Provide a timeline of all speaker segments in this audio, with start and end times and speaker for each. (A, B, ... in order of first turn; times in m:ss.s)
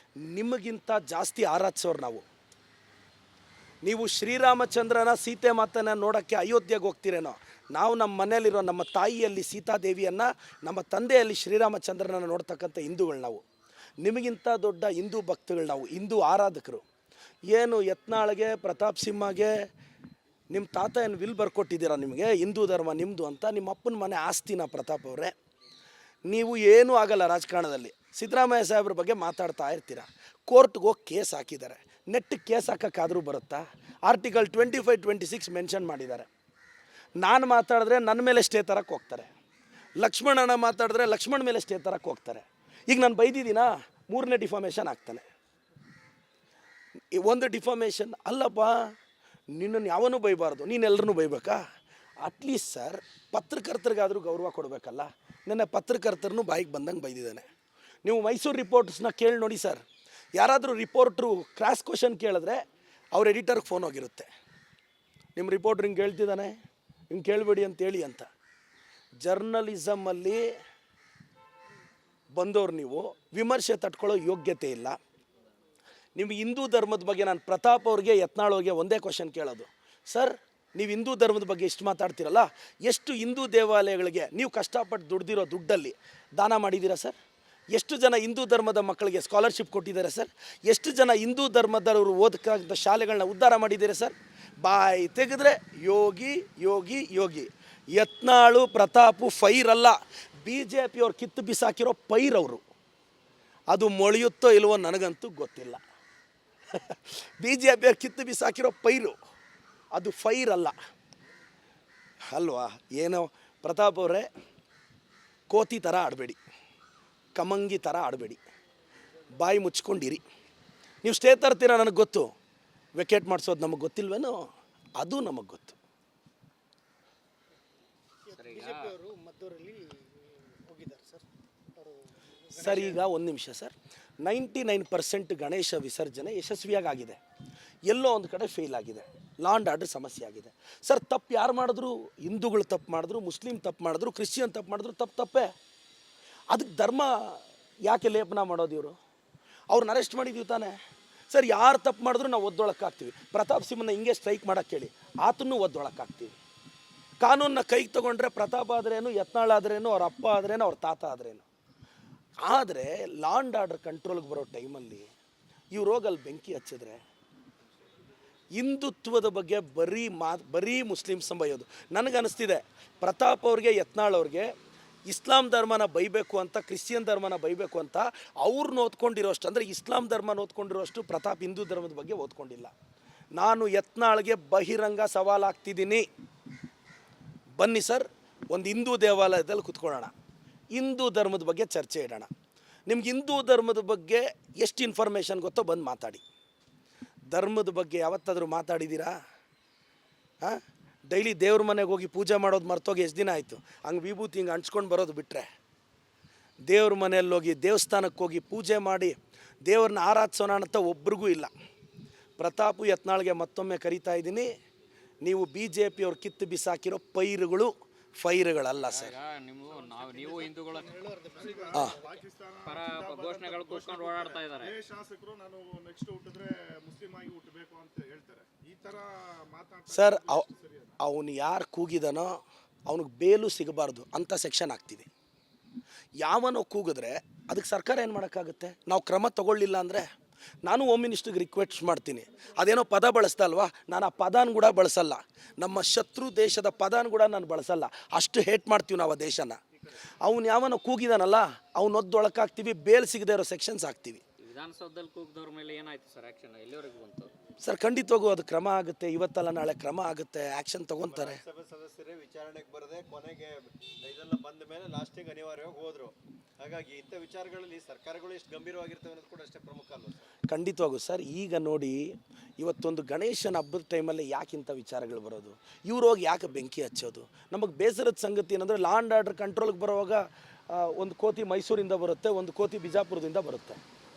0:00.2-0:02.2 A
0:03.8-0:13.4 A
0:14.0-0:16.8 A
0:17.5-0:19.6 A
0:20.5-0:25.3 A
0:26.3-0:36.3 A
0:37.2-0:39.3 A
0:40.0-0:45.2 A
0:47.1-0:48.9 A
0:49.5-0:51.6 A
0:52.2-0:57.4 A
0:58.0-0:59.8 A
1:00.4-1:02.6 A
1:03.1-1:04.3 A
1:05.4-1:06.5 A
1:07.1-1:08.3 A
1:09.2-1:10.4 A
1:12.3-1:15.0 A
1:16.2-1:27.2 A
1:27.7-1:42.6 A
1:43.7-1:45.8 A
1:46.7-1:49.1 A
1:49.9-1:50.8 A
1:52.3-1:54.3 A
1:55.5-1:56.4 A
1:57.4-1:58.4 A
1:59.4-2:00.2 A
2:01.0-2:02.3 A
2:03.0-2:04.4 A
2:05.0-2:05.8 A
2:08.3-2:13.0 B
2:08.4-2:08.9 C
2:12.6-2:17.2 A
2:17.9-2:25.5 A
2:26.5-2:29.0 A
2:29.7-2:30.7 A
2:31.3-2:36.4 A
2:37.2-2:41.4 A
2:42.4-2:45.1 A
2:45.7-2:47.0 A
2:48.6-2:54.5 A
2:55.1-3:02.7 A
3:03.4-3:06.0 A
3:07.6-3:10.1 A
3:10.7-3:12.3 A
3:12.9-3:16.2 A
3:17.3-3:19.1 A
3:20.4-3:25.5 A
3:26.7-3:29.2 A
3:29.7-3:31.5 A
3:32.4-3:34.5 A
3:35.2-3:39.1 A
3:38.8-3:40.9 C
3:40.0-3:42.3 B
3:41.3-3:51.0 D
3:42.6-3:44.8 C
3:49.9-3:50.5 A
3:51.0-3:55.1 A
3:56.2-4:00.1 A
4:00.6-4:09.6 A
4:10.2-4:14.2 A
4:14.4-4:17.3 C
4:17.6-4:21.4 A
4:21.0-4:30.3 E
4:30.5-4:32.1 A
4:32.6-4:43.8 A